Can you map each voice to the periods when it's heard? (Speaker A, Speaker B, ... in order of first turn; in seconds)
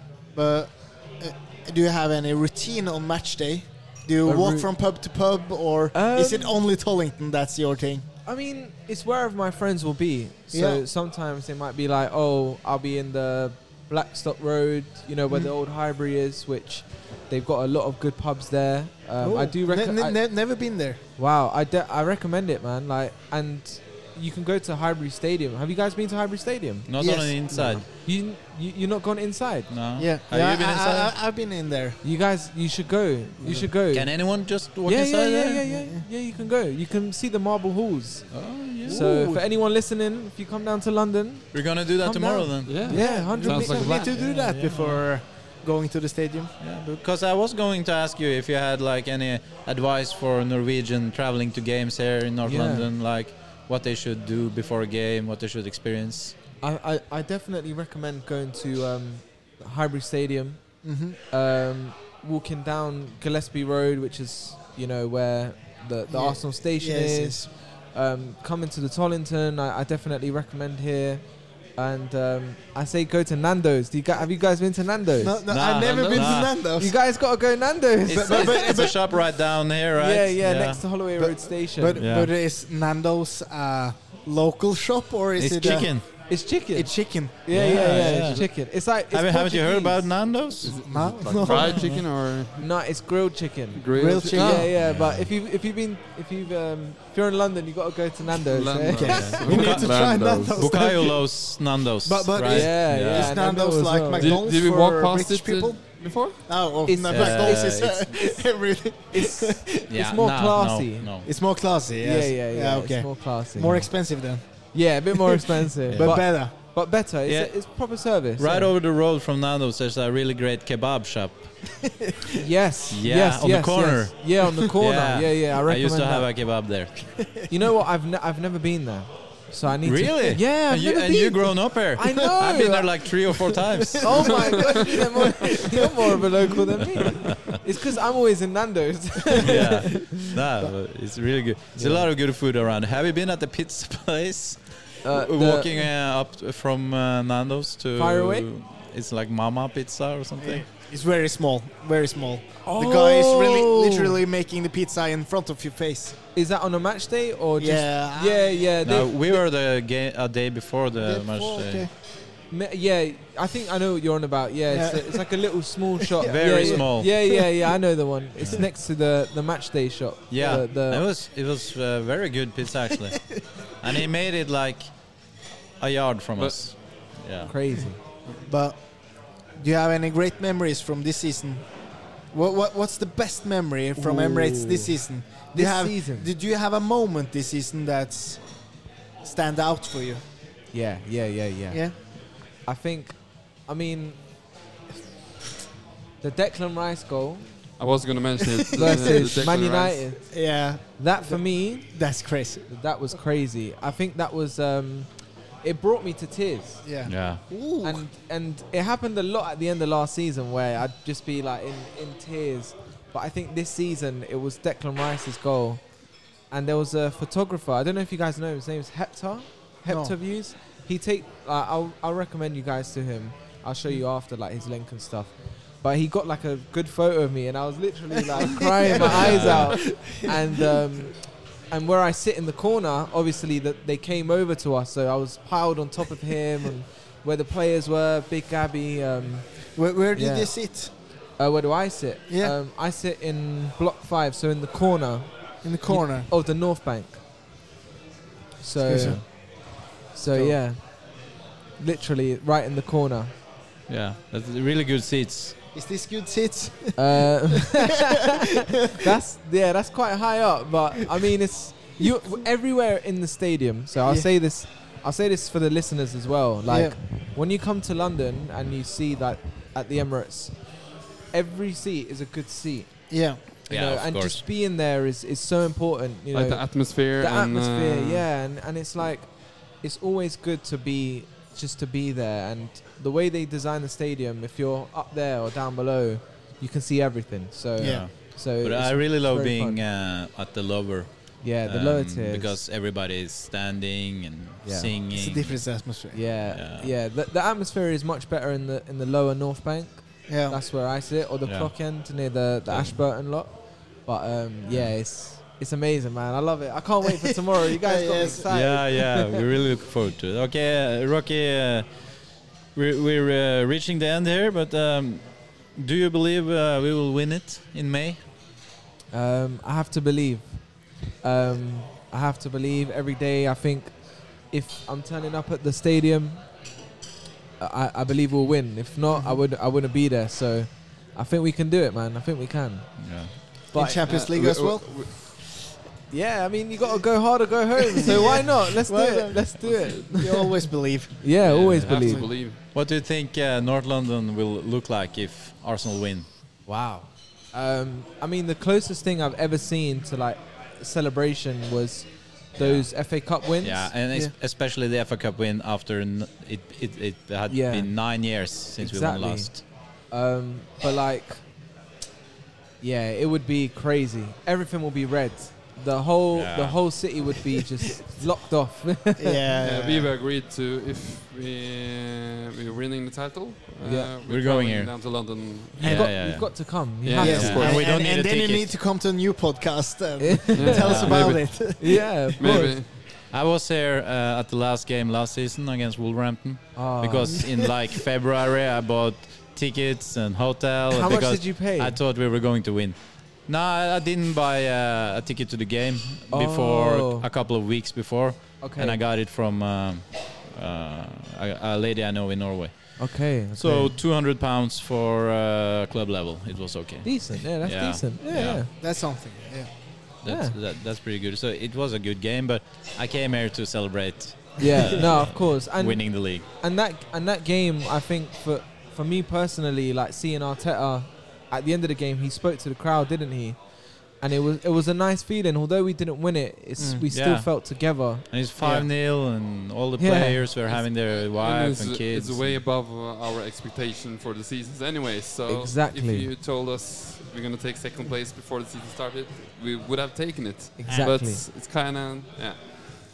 Speaker A: 0.3-8.0, 10.5-10.8, 19.2-21.0, 27.0-27.8, 30.0-32.0, 35.7-36.0, 38.8-39.4, 42.9-46.5, 60.8-61.2, 66.1-67.5, 75.2-77.0, 78.1-79.0, 81.2-87.4, 90.8-91.8, 93.9-94.7, 98.9-101.4, 102.0-109.8, 111.2-116.5, 133.9-136.0, 150.4-156.1, 157.6-158.6, 161.0-161.9, 164.7-165.3, 166.1-167.5, 178.4-178.8, 179.6-181.7, 182.3-188.4, 189.2-190.2, 198.8-199.5, 200.3-202.7, 206.8-208.0, 219.9-220.1, 228.3-230.7, 239.8-240.9, 242.3-242.5, 245.6-246.3, 248.8-249.3, 250.3-250.6, 255.7-257.8, 258.4-259.0, 266.7-267.0, 273.1-273.4, 287.8-288.0, 295.1-296.2, 300.3-300.6, 307.7-308.5, 329.1-329.4, 333.7-335.4, 337.9-341.2, 369.2-370.1, 377.2-382.5, 387.3-387.8, 408.7-409.7, 426.8-427.1
Speaker B: 4.2-4.7, 5.9-6.6, 8.2-20.2, 21.2-26.9, 28.0-29.7, 32.0-34.3, 34.8-44.2, 52.4-52.9, 56.6-71.2, 71.7-75.4, 76.1-78.9, 80.0-82.0, 85.6-90.3, 92.6-99.5, 102.4-104.4, 106.8-107.7, 109.1-111.1, 112.0-114.1, 114.7-118.7, 122.4-126.3, 127.5-133.1, 134.0-140.7, 141.7-142.1, 145.0-145.9, 147.9-148.5, 152.6-154.2, 156.3-159.2, 162.5-171.1, 177.4-178.0, 183.9-186.3, 190.7-194.2, 196.2-197.5, 198.7-202.0, 202.7-205.1, 205.6-206.8, 207.8-215.8, 216.5-240.5, 241.4-247.2, 248.6-251.0, 251.8-253.3, 257.0-258.3, 258.9-270.6, 271.3-289.8, 291.4-292.6, 294.6-294.9, 296.1-309.4, 319.1-320.6, 321.2-326.4, 327.6-333.1, 333.7-334.1, 336.1-340.6, 341.2-342.3, 346.6-353.9, 357.5-358.1, 358.8-361.4, 362.8-369.4, 373.8-374.1, 375.8-377.7, 380.2-382.8, 386.8-387.4, 390.9-392.0, 396.3-397.3, 398.6-399.0, 403.0-403.9, 407.0-408.7, 410.2-410.6, 414.6-423.6, 424.2-428.9, 430.0-430.5, 435.4-436.3, 440.8-441.4
Speaker C: 26.9-27.9, 29.7-31.1, 33.9-35.7, 38.3-39.0, 41.5-42.8, 44.1-45.0, 46.6-56.3, 75.5-76.5, 78.0-80.9, 82.0-82.3, 85.4-86.1, 87.5-92.0, 94.5-95.3, 99.3-103.3, 107.1-108.2, 109.9-111.3, 115.8-116.4, 117.2-121.5, 122.9-127.2, 129.8-134.5, 139.4-150.6, 158.8-161.9, 166.2-167.1, 168.4-168.6, 170.3-174.9, 175.8-177.5, 207.0-207.4, 229.1-229.9, 253.9-255.5, 273.7-274.4, 287.8-295.6, 296.4-296.9, 301.4-301.7, 302.7-303.0, 308.5-311.9, 312.7-318.2, 333.0-333.3, 342.5-346.3, 352.6-352.9, 353.6-359.6, 366.3-367.0, 374.2-374.9, 375.8-378.7, 380.7-381.3, 382.9-408.6, 410.2-416.4, 427.1-427.5, 428.3-432.6
Speaker D: 33.4-33.7, 42.6-44.2, 90.6-92.7, 93.7-94.7, 98.5-101.0, 104.2-106.4, 197.8-200.1, 276.3-278.2, 334.0-335.1, 339.6-340.0, 341.4-342.6, 369.6-376.2, 377.0-377.8, 380.5-381.7, 382.4-382.9, 431.3-442.6